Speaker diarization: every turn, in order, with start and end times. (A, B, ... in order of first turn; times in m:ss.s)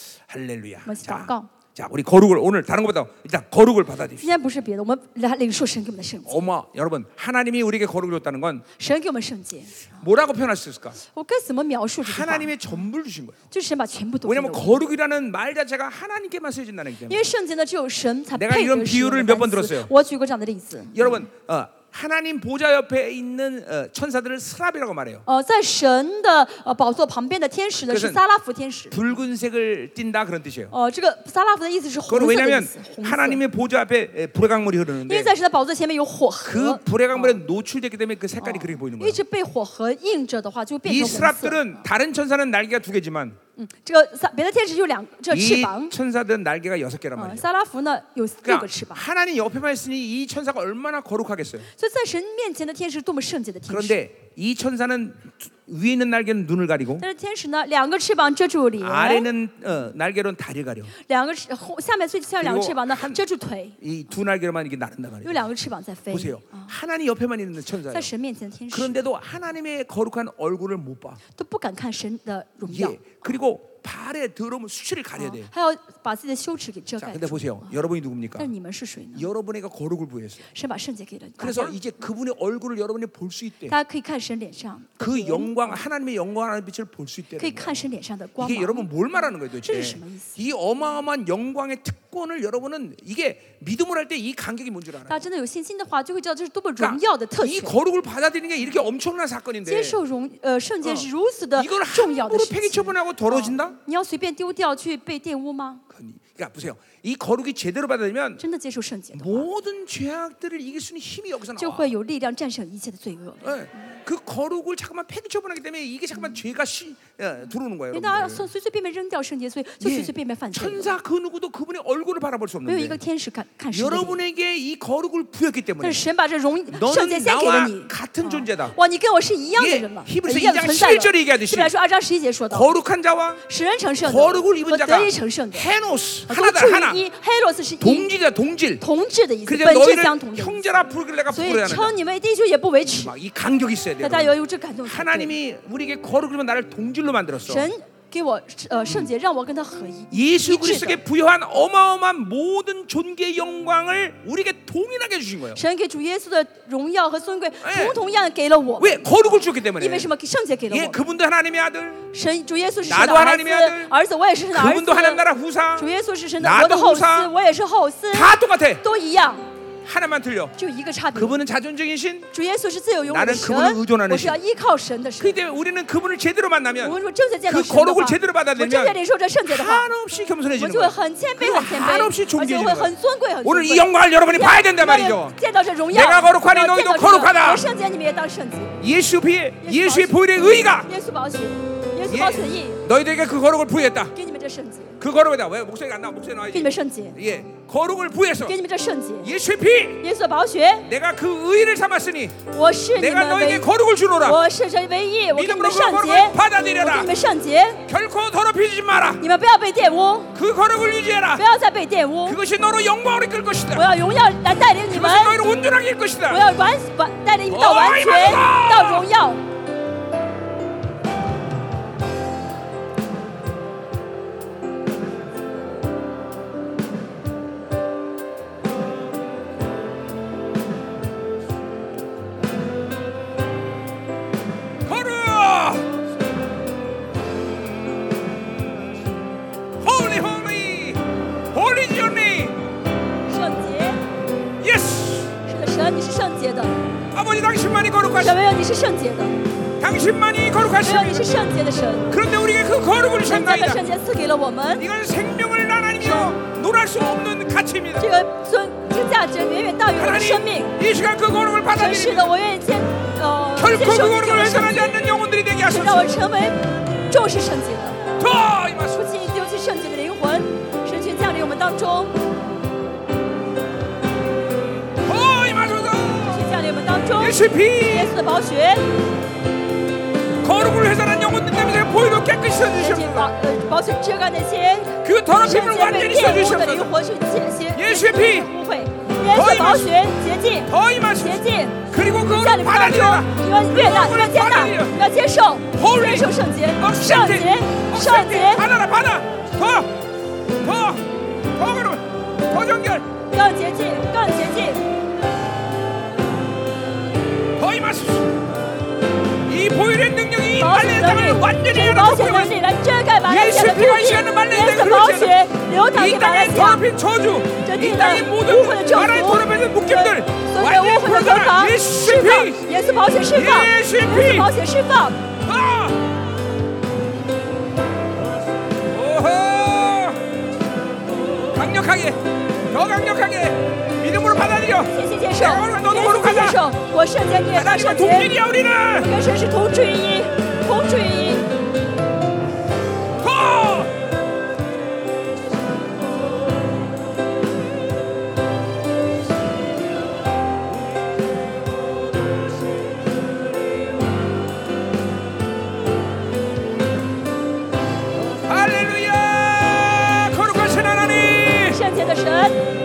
0:00.3-0:04.3 A
0:00.8-0:01.5 B
0:04.2-0:06.4 B
0:06.2-0:08.6 A
0:08.8-0:09.8 B
0:10.0-0:11.0 A
0:11.1-0:12.7 B
0:12.0-0:13.4 A
0:13.5-0:14.8 B
0:14.2-0:17.3 A
0:17.1-0:21.3 B
0:18.3-0:19.9 A
0:20.9-0:25.2 A
0:25.2-0:29.0 B
0:27.8-0:28.2 A
0:28.9-0:30.7 A
0:30.7-0:33.4 B
0:32.1-0:35.3 A
0:35.1-0:37.4 B
0:36.4-0:39.2 A
0:38.4-0:41.8 B
0:40.8-0:43.4 A
0:43.6-0:45.9 B
0:45.3-0:47.5 A
0:47.2-0:49.0 B
0:48.4-0:51.7 A
0:51.8-0:54.0 B
0:53.7-0:57.0 A
0:57.0-0:59.3 B
0:58.8-1:00.9 A
1:01.0-1:03.8 B
1:02.4-1:03.2 A
1:03.8-1:05.5 A
1:05.2-1:06.7 B
1:06.1-1:08.1 A
1:07.9-1:09.0 B
1:08.7-1:11.2 A
1:11.4-1:13.2 B
1:12.6-1:15.5 A
1:15.2-1:17.8 B
1:17.0-1:18.5 A
1:18.4-1:19.3 B
1:19.1-1:20.4 A
1:20.5-1:21.8 B
1:21.4-1:23.7 A
1:23.7-1:25.8 B
1:25.0-1:27.9 A
1:27.4-1:30.4 B
1:28.4-1:35.3 A
1:35.1-1:37.8 B
1:36.8-1:40.0 A
1:39.6-1:45.8 B
1:40.8-1:43.8 A
1:45.9-1:48.4 A
1:48.4-1:49.5 B
1:49.1-1:51.9 A
1:51.6-1:53.5 B
1:53.4-1:58.5 A
1:57.9-2:00.9 B
1:59.8-2:03.0 A
2:02.6-2:04.2 B
2:03.7-2:06.0 A
2:05.8-2:12.7 B
2:06.7-2:08.8 A
2:09.6-2:11.7 A
2:12.5-2:13.4 A
2:13.4-2:15.7 B
2:14.0-2:17.0 A
2:16.3-2:18.1 B
2:17.8-2:18.8 A
2:18.8-2:20.7 B
2:19.4-2:21.9 A
2:21.3-2:23.1 B
2:22.8-2:27.7 A
2:24.0-2:25.4 B
2:27.4-2:31.0 B
2:30.1-2:35.6 A
2:35.5-2:39.1 B
2:37.6-2:38.0 A
2:38.8-2:40.1 A
2:39.8-2:41.0 B
2:40.7-2:42.0 A
2:42.1-2:49.5 B
2:42.8-2:43.9 A
2:44.5-2:47.3 A
2:48.1-2:48.8 A
2:49.8-2:50.5 A
2:50.6-2:51.4 B
2:51.1-2:52.3 A
2:52.3-2:55.4 B
2:53.1-2:54.4 A
2:55.2-3:05.4 A
2:56.8-2:59.9 B
3:00.6-3:08.8 B
3:05.9-3:07.7 A
3:08.8-3:10.9 A
3:09.6-3:12.8 B
3:12.0-3:14.1 A
3:14.1-3:15.0 B
3:15.0-3:18.6 A
3:16.5-3:17.2 B
3:18.4-3:19.3 B
3:19.2-3:20.1 A
3:20.0-3:20.9 B
3:20.8-3:24.4 A
3:22.5-3:23.7 B
3:24.2-3:27.8 B
3:25.3-3:27.1 A
3:27.9-3:29.2 A
3:29.2-3:30.3 B
3:30.3-3:31.4 A
3:31.4-3:32.4 B
3:32.2-3:33.9 A
3:33.7-3:35.5 B
3:34.9-3:36.5 A
3:36.3-3:39.4 B
3:37.5-3:39.1 A
3:54.8-3:56.0 A
3:59.8-4:02.6 A
4:03.3-4:04.0 B
4:04.6-4:05.4 A
4:05.4-4:06.8 B
4:07.1-4:08.4 A
4:08.1-4:09.4 B
4:09.8-4:11.5 A
4:10.8-4:12.2 B
4:12.1-4:13.8 A
4:13.2-4:14.8 B
4:14.7-4:18.1 A
4:16.0-4:16.4 B
4:18.0-4:20.8 B
4:20.0-4:22.3 A
4:21.7-4:25.0 B
4:23.6-4:26.1 A
4:25.6-4:28.0 B
4:28.2-4:29.1 A
4:28.9-4:32.2 B
4:35.0-4:36.4 A
4:36.1-4:38.9 B
4:37.2-4:38.2 A
4:40.4-4:43.3 A
4:42.8-4:58.6 B
4:45.0-4:46.9 A
4:47.7-4:48.5 A
4:49.2-4:49.9 A
4:50.7-4:54.9 A
4:55.7-5:00.0 A
5:00.6-5:03.1 A
5:03.3-5:04.8 B
5:07.6-5:08.4 A
5:09.4-5:12.6 A
5:10.6-5:16.9 B
5:13.2-5:22.7 A
5:17.6-5:25.2 B
5:23.3-5:24.5 A
5:25.4-5:26.1 A
5:28.9-5:30.2 A
5:31.5-5:36.6 A
5:34.8-5:38.3 B
5:37.5-5:39.1 A
5:38.9-5:41.5 B
5:43.2-5:43.9 A
5:58.4-6:01.8 A
6:01.5-6:02.6 B